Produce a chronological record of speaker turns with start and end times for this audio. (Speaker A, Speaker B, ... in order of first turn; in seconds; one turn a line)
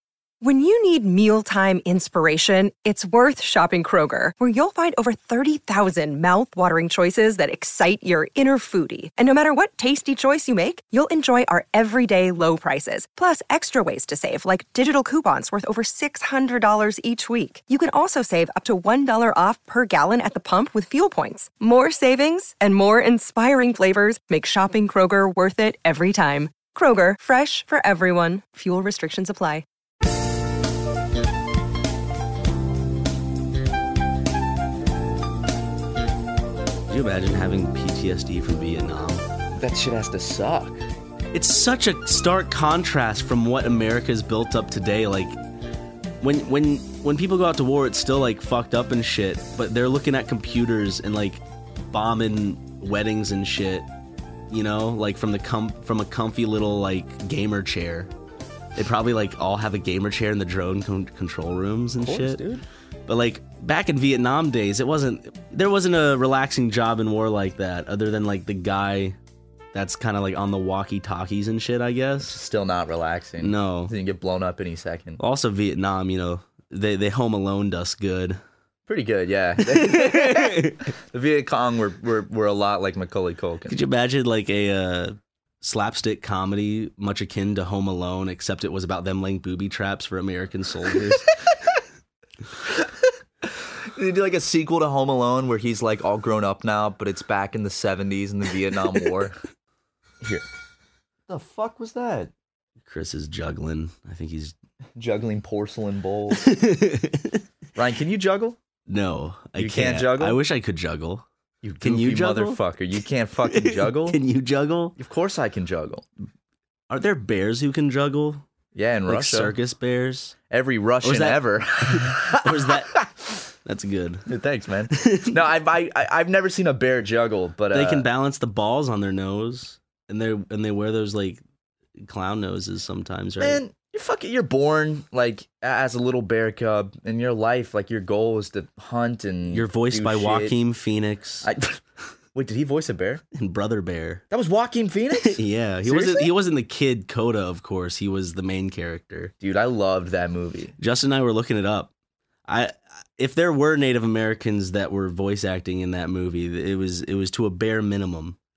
Speaker A: 0.4-29.6
Speaker B: 36.9-39.3
Speaker C: 39.5-40.8
Speaker B: 41.3-45.3
Speaker B: 46.2-53.9
Speaker B: 54.5-58.1
Speaker B: 58.7-62.4
Speaker C: 62.0-62.6
Speaker B: 63.1-69.2
Speaker B: 69.7-72.4
Speaker C: 72.2-75.2
Speaker B: 73.4-73.9
Speaker B: 75.2-78.4
Speaker C: 78.9-83.8
Speaker B: 79.6-80.9
Speaker B: 83.7-91.4
Speaker C: 93.9-99.4
Speaker C: 101.3-102.3
Speaker B: 102.8-104.5
Speaker C: 105.0-106.5
Speaker B: 106.3-107.4
Speaker C: 107.7-108.6
Speaker B: 108.9-111.2
Speaker C: 109.6-110.4
Speaker C: 111.6-114.2
Speaker B: 111.8-112.6
Speaker B: 113.5-115.0
Speaker C: 115.0-116.0
Speaker B: 116.9-118.4
Speaker C: 118.7-119.5
Speaker B: 119.1-120.3
Speaker C: 120.5-123.1
Speaker B: 121.0-123.0
Speaker B: 123.6-124.3
Speaker C: 124.3-128.0
Speaker B: 124.9-125.4
Speaker B: 127.7-131.4
Speaker B: 132.0-133.6
Speaker C: 133.4-140.6
Speaker B: 139.5-141.5
Speaker C: 141.4-141.8
Speaker C: 142.3-143.2
Speaker B: 143.3-144.2
Speaker C: 144.3-146.3
Speaker B: 145.2-149.3
Speaker C: 149.4-150.7
Speaker B: 150.8-151.9
Speaker B: 152.5-158.4